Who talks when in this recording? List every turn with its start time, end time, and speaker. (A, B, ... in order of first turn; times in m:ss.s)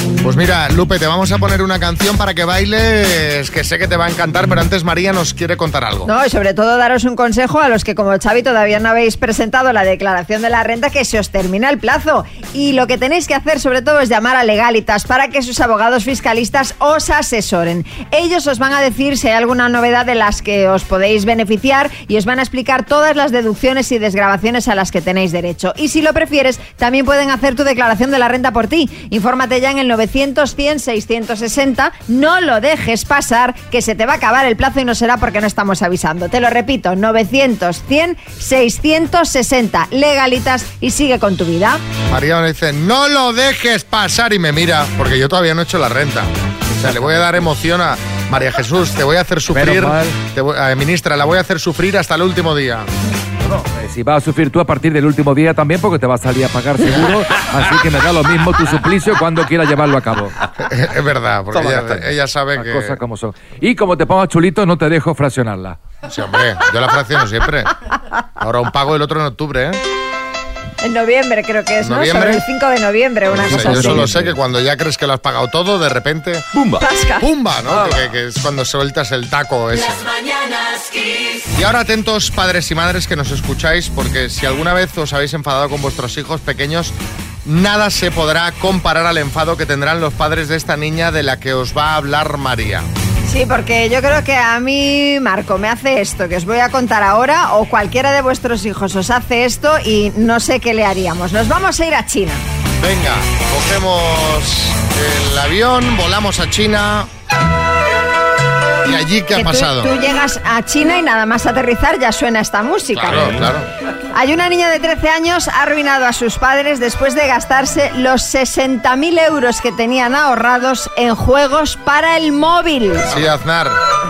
0:00.2-0:06.1 A
0:06.1-0:41.8 B
0:42.1-0:52.9 A
0:49.5-0:50.1 C
0:53.6-1:00.4 C
1:00.7-1:03.0 A
1:01.5-1:02.0 C
1:02.6-1:05.8 C
1:06.1-1:07.7 A
1:08.4-1:09.8 A
1:10.8-1:14.1 B
1:11.8-1:12.4 A
1:13.4-1:16.5 A
1:16.8-1:17.2 B
1:17.2-1:20.1 A
1:21.5-1:32.9 A
1:33.3-1:42.4 B
1:42.8-1:47.1 A
1:48.8-1:49.9 A
1:49.4-1:53.3 B
1:52.9-1:53.7 A
1:54.1-2:03.1 B
2:03.1-2:03.8 A